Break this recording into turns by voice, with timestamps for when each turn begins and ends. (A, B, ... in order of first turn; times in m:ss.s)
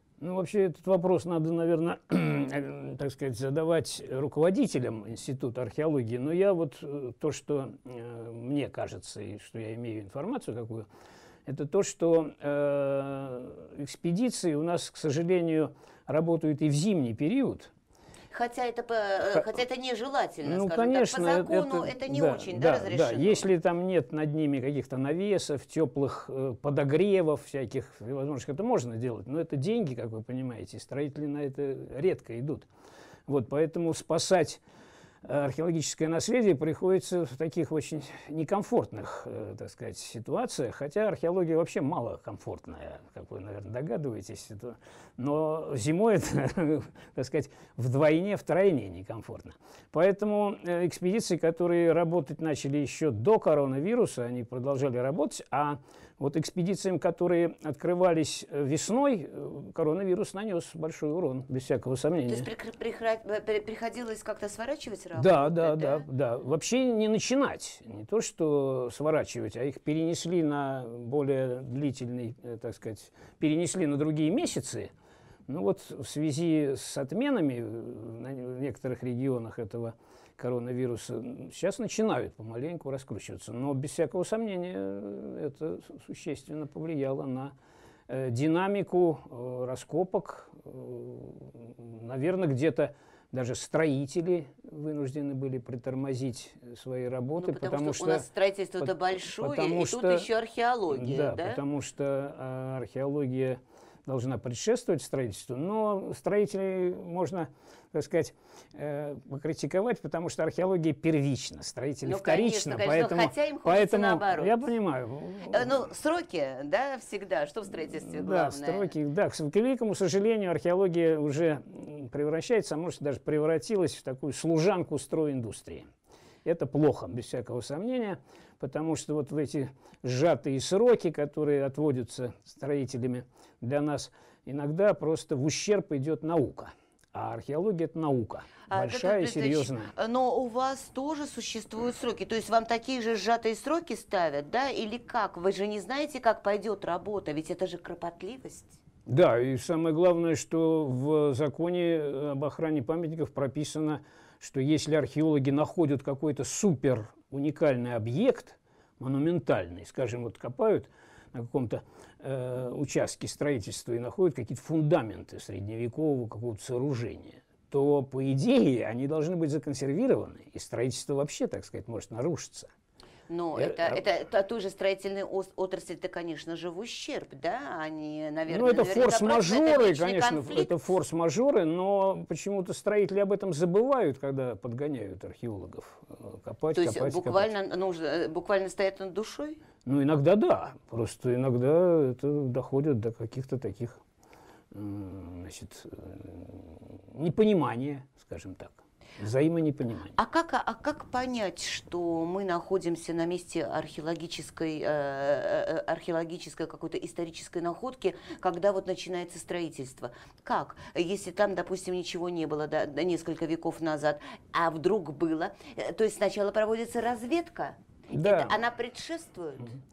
0:00.2-0:10.9 A
0:11.4-0:17.7 A
0:18.3-0:23.5 B
0:20.4-0:32.7 A
0:33.3-0:34.6 A
0:35.2-1:02.5 A
1:02.2-1:06.0 B
1:05.2-1:14.9 A
1:15.5-1:27.5 A
1:28.1-1:38.2 A
1:37.4-1:41.6 B
1:38.8-1:40.3 A
1:40.9-1:55.9 A
1:52.0-1:54.7 B
1:55.5-1:58.9 B
1:57.9-2:05.9 A
2:06.4-2:19.9 A
2:18.7-2:28.8 B
2:29.0-2:52.7 A
2:53.3-3:00.7 B
2:53.6-2:54.0 A
2:58.5-3:07.5 A
3:06.7-3:09.6 B
3:09.8-3:14.0 A
3:14.7-3:20.1 A
3:20.1-3:39.7 B
3:38.1-3:38.6 A